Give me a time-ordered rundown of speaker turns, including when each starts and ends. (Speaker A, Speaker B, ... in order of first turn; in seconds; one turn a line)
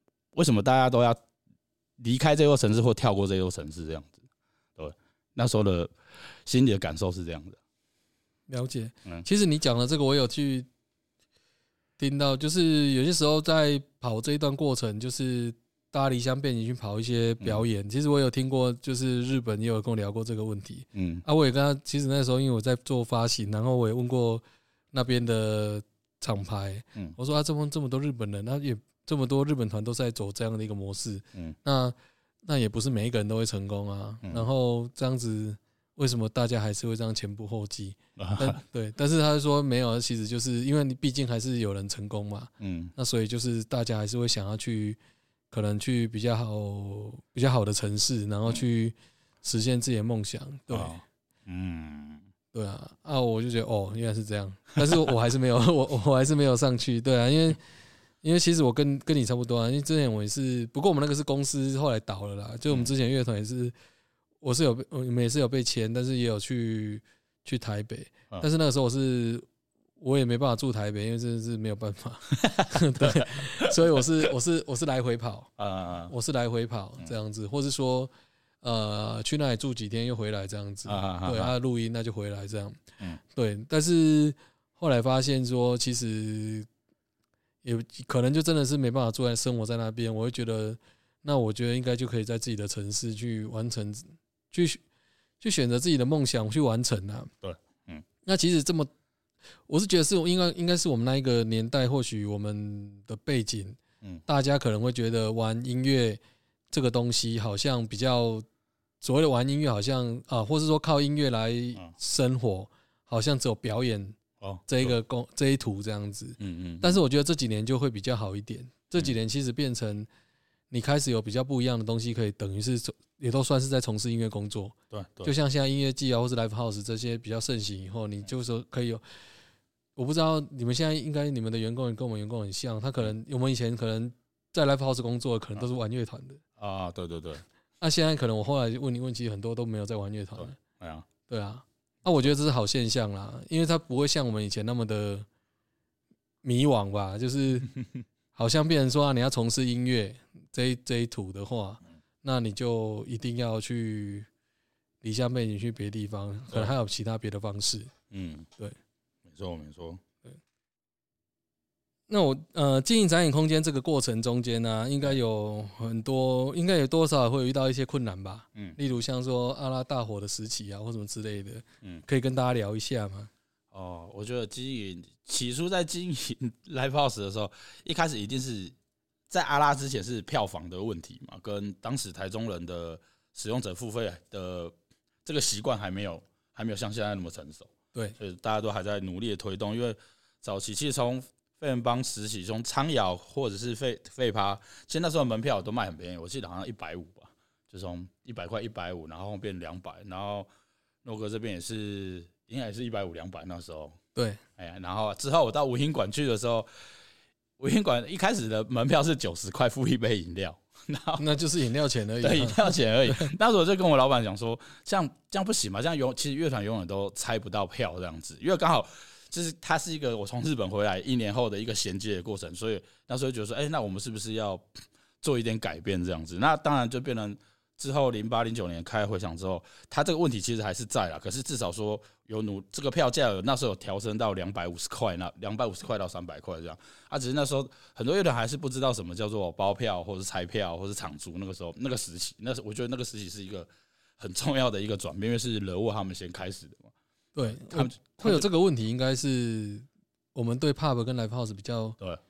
Speaker A: 0.3-1.2
Speaker A: 2.0-4.2
Speaker A: 4.8-5.9
Speaker A: 6.4-7.6
Speaker B: 8.5-10.7
Speaker B: 12.0-45.0
Speaker A: 20.9-21.2
Speaker A: 38.2-38.6
Speaker A: 42.6-42.9
Speaker B: 45.5-51.0
Speaker A: 50.7-52.2
Speaker B: 52.5-57.6
Speaker B: 58.2-63.7
Speaker B: 64.4-69.5
Speaker B: 70.0-75.5
Speaker A: 72.4-74.0
Speaker A: 75.6-76.1
Speaker B: 76.1-82.8
Speaker A: 80.9-81.5
Speaker B: 83.3-86.7
Speaker B: 87.6-94.8
Speaker B: 95.4-97.3
Speaker A: 97.4-98.0
Speaker B: 98.2-98.9
Speaker B: 99.7-106.2
Speaker B: 106.7-108.5
Speaker B: 109.0-120.1
Speaker A: 114.4-114.9
Speaker A: 116.4-117.0
Speaker B: 120.7-129.0
Speaker A: 124.9-125.3
Speaker B: 129.9-136.4
Speaker A: 136.6-137.4
Speaker B: 137.8-140.6
Speaker A: 140.4-141.1
Speaker B: 141.3-145.2
Speaker B: 146.4-147.7
Speaker B: 148.3-154.3
Speaker B: 155.0-157.9
Speaker A: 158.1-158.5
Speaker A: 159.2-160.0
Speaker B: 162.1-173.3
Speaker A: 173.7-178.7
Speaker A: 179.3-184.7
Speaker A: 185.2-200.5
Speaker A: 201.0-204.0
Speaker B: 204.1-204.4
Speaker A: 204.6-206.7
Speaker A: 207.6-211.2
Speaker B: 211.2-213.3
Speaker A: 212.2-246.9
Speaker B: 247.3-252.0
Speaker A: 247.4-248.4